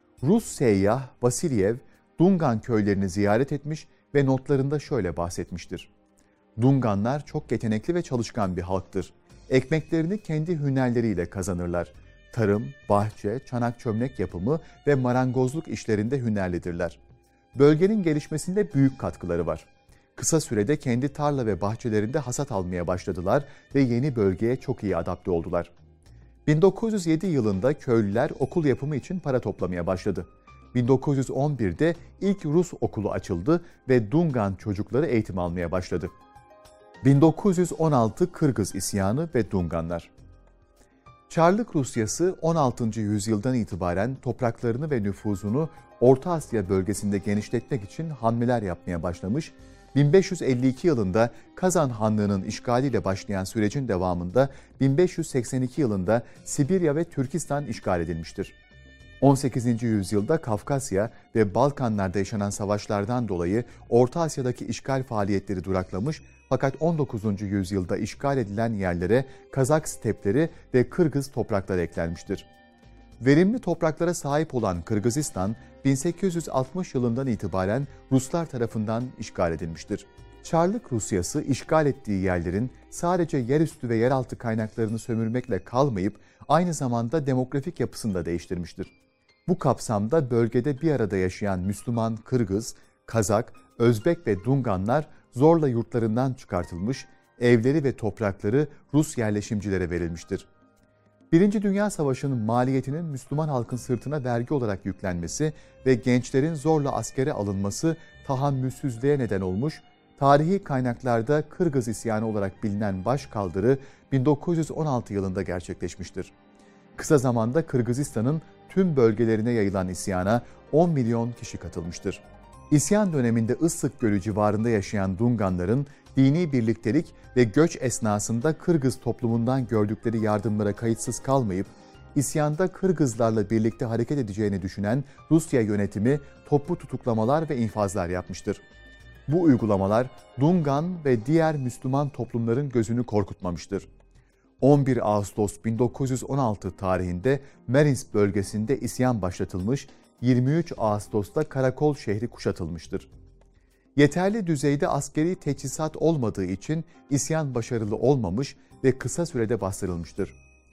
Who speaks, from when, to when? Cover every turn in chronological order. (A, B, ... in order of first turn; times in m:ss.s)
0:00.2-0:05.9 A
0:06.6-0:17.0 A
0:17.5-0:25.7 A
0:26.4-0:36.1 A
0:37.0-0:40.1 A
0:41.3-0:58.5 A
0:59.2-1:12.5 A
1:13.2-1:28.9 A
1:29.4-1:40.5 A
1:41.3-1:56.3 A
1:57.0-2:18.6 A
2:19.3-2:23.9 A
2:24.6-2:33.1 A
2:34.0-2:40.3 A